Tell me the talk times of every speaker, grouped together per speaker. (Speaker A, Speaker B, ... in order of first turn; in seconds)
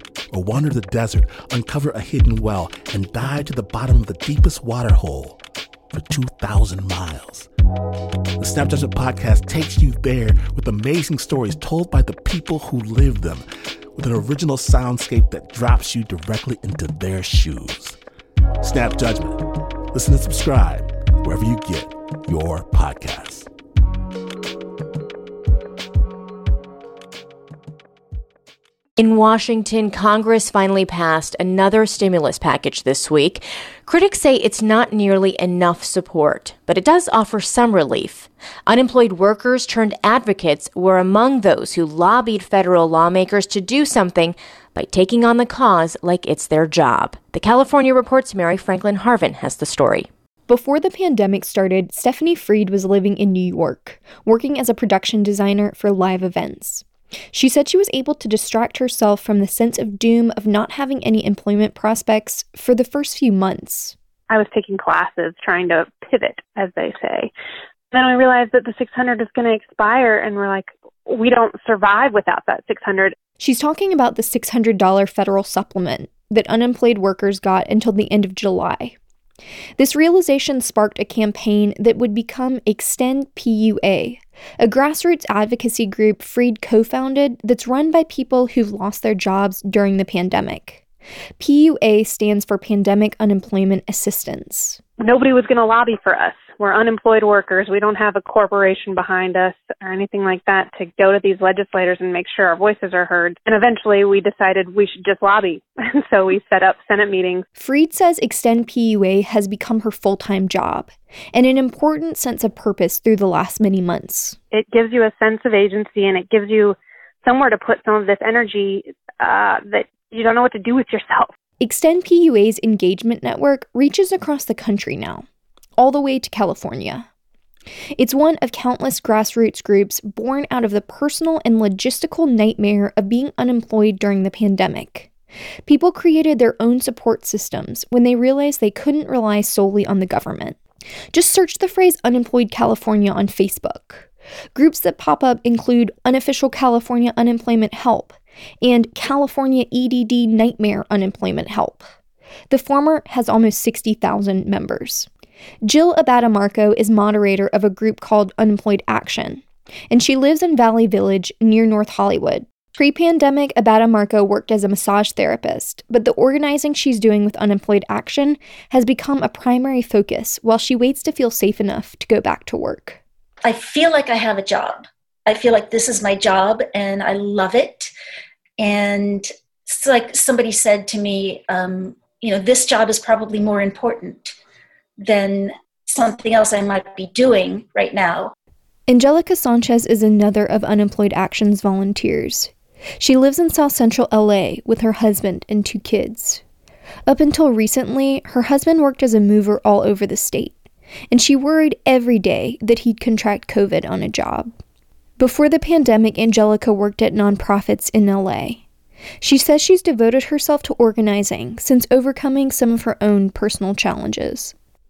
Speaker A: 0.3-5.4, 5.9-7.5, 8.4-18.0, 18.6-23.5
Speaker B: 29.0-50.1
Speaker C: 50.5-63.9, 73.4-79.0, 79.8-90.8, 91.4-94.8, 107.6-114.4, 121.6-125.2, 125.8-127.0, 128.0-135.1, 135.7-140.6, 141.1-151.9, 152.5-155.1, 155.6-173.0, 188.9-196.4, 197.1-200.6, 201.1-204.5, 205.2-208.6, 209.2-214.5
Speaker D: 64.3-67.3, 67.9-73.1, 95.0-107.5, 114.5-121.3
Speaker E: 173.4-177.9, 178.6-184.3, 185.0-188.3